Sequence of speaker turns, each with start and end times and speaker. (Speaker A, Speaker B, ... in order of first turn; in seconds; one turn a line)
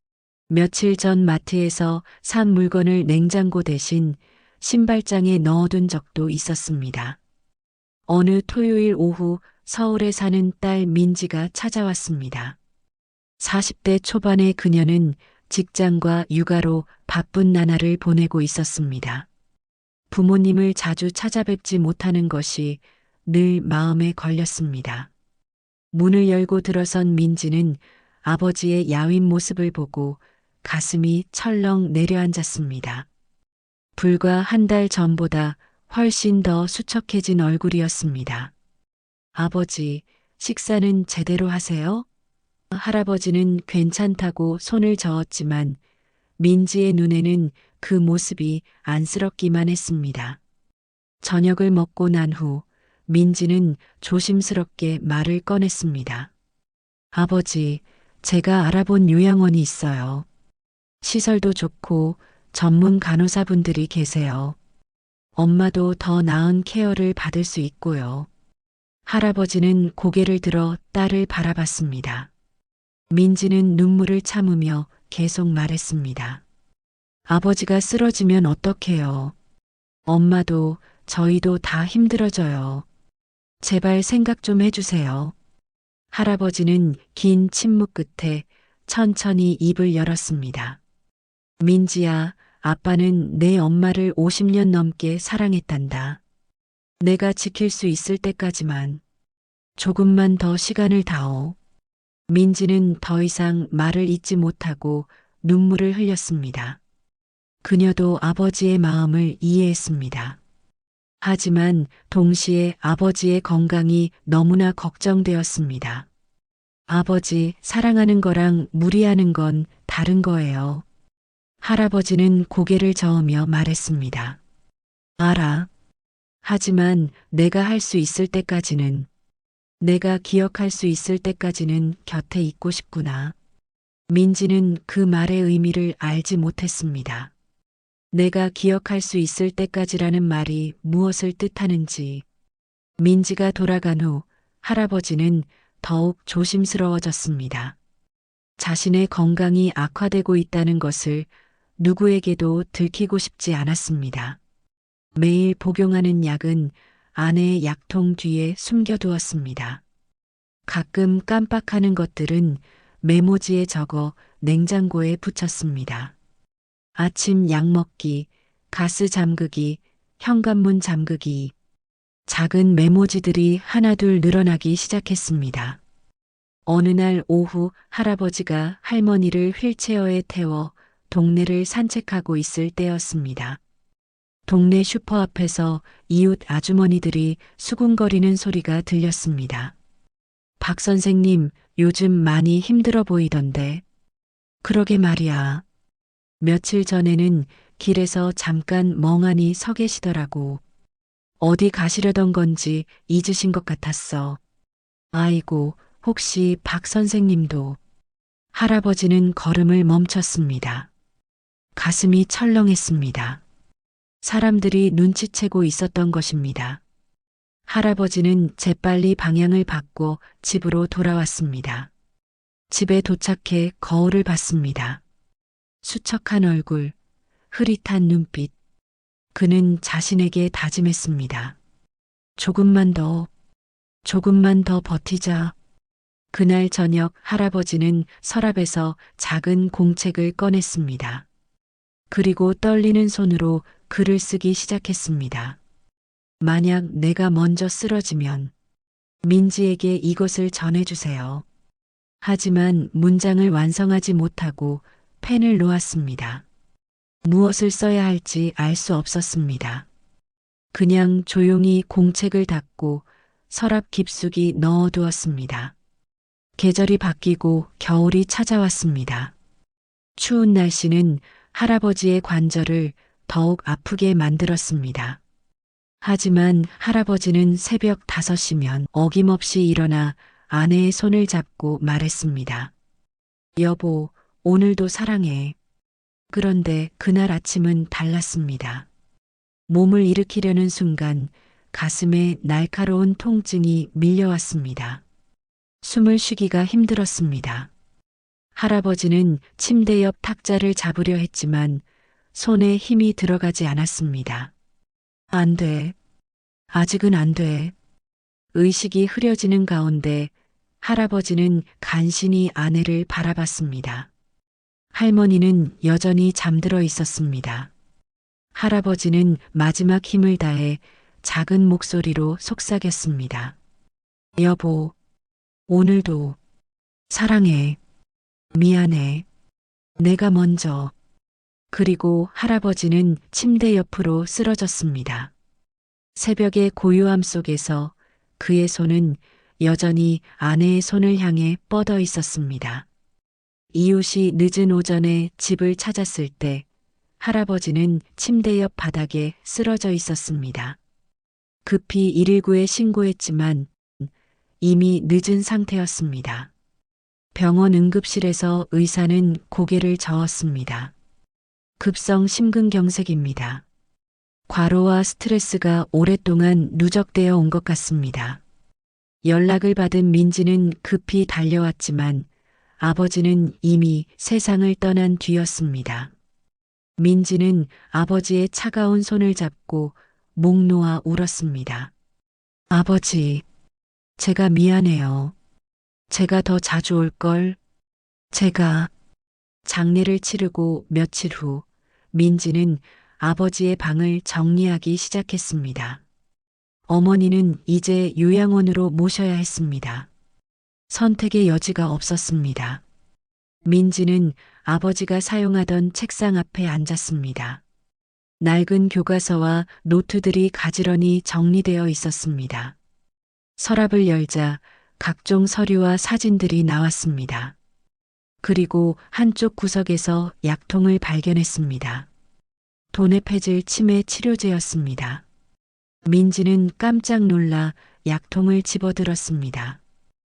Speaker A: 0.5-7.2
Speaker A: 8.1-12.6
Speaker A: 13.4-19.3
Speaker A: 20.1-25.1
Speaker A: 25.9-33.1
Speaker A: 34.0-38.5
Speaker A: 39.3-42.0
Speaker A: 42.7-45.8
Speaker A: 46.4-50.4
Speaker A: 51.2-56.3
Speaker A: 57.1-60.2
Speaker A: 61.0-64.6
Speaker A: 65.3-68.3
Speaker A: 69.1-72.3
Speaker A: 73.1-76.4
Speaker A: 77.3-79.3
Speaker A: 80.0-82.8
Speaker A: 83.6-85.3
Speaker A: 86.1-90.8
Speaker A: 91.6-96.2
Speaker A: 97.0-99.0
Speaker A: 99.8-101.6
Speaker A: 102.3-106.8
Speaker A: 107.6-110.4
Speaker A: 111.2-116.1
Speaker A: 116.9-120.8
Speaker A: 121.6-124.4
Speaker A: 125.2-125.7
Speaker A: 126.4-129.1
Speaker A: 129.8-133.3
Speaker A: 134.1-137.3
Speaker A: 138.1-142.2
Speaker A: 143.0-147.8
Speaker A: 148.6-154.4
Speaker A: 155.2-159.8
Speaker A: 160.7-166.1
Speaker A: 166.9-171.5
Speaker A: 172.3-175.8
Speaker A: 176.7-183.6
Speaker A: 184.4-189.7
Speaker A: 190.6-193.8
Speaker A: 194.6-195.6
Speaker A: 196.4-200.6
Speaker A: 201.4-204.4
Speaker A: 205.1-207.8
Speaker A: 208.5-210.9
Speaker A: 211.8-213.4
Speaker A: 214.2-216.8
Speaker A: 217.7-221.9
Speaker A: 222.7-225.0
Speaker A: 225.8-226.9
Speaker A: 227.5-228.5
Speaker A: 229.3-231.6
Speaker A: 232.4-233.3
Speaker A: 234.0-235.5
Speaker A: 236.3-241.3
Speaker A: 242.1-245.6
Speaker A: 246.4-248.5
Speaker A: 249.2-251.4
Speaker A: 252.2-256.4
Speaker A: 257.2-259.9
Speaker A: 260.7-265.7
Speaker A: 266.6-269.3
Speaker A: 270.2-275.2
Speaker A: 276.0-282.7
Speaker A: 283.6-285.6
Speaker A: 286.3-288.9
Speaker A: 289.7-295.0
Speaker A: 295.8-297.7
Speaker A: 298.5-304.5
Speaker A: 305.3-305.9
Speaker A: 306.7-307.7
Speaker A: 308.5-314.1
Speaker A: 314.9-317.7
Speaker A: 318.5-323.6
Speaker A: 324.4-324.9
Speaker A: 325.7-326.4
Speaker A: 327.1-327.8
Speaker A: 328.5-329.2
Speaker A: 330.0-330.9
Speaker A: 331.7-335.3
Speaker A: 336.1-342.9
Speaker A: 343.7-346.6
Speaker A: 347.2-350.8
Speaker A: 351.6-356.5
Speaker A: 357.3-360.9
Speaker A: 361.8-363.6
Speaker A: 364.5-368.4
Speaker A: 369.2-372.3
Speaker A: 372.8-376.1
Speaker A: 377.0-381.9
Speaker A: 382.7-383.4
Speaker A: 384.2-385.3
Speaker A: 386.1-387.6
Speaker A: 388.3-388.9
Speaker A: 389.6-396.0
Speaker A: 396.9-400.1
Speaker A: 400.9-402.8
Speaker A: 403.6-407.6
Speaker A: 408.4-412.8
Speaker A: 413.6-417.6
Speaker A: 418.4-422.1
Speaker A: 422.9-425.2
Speaker A: 426.0-429.8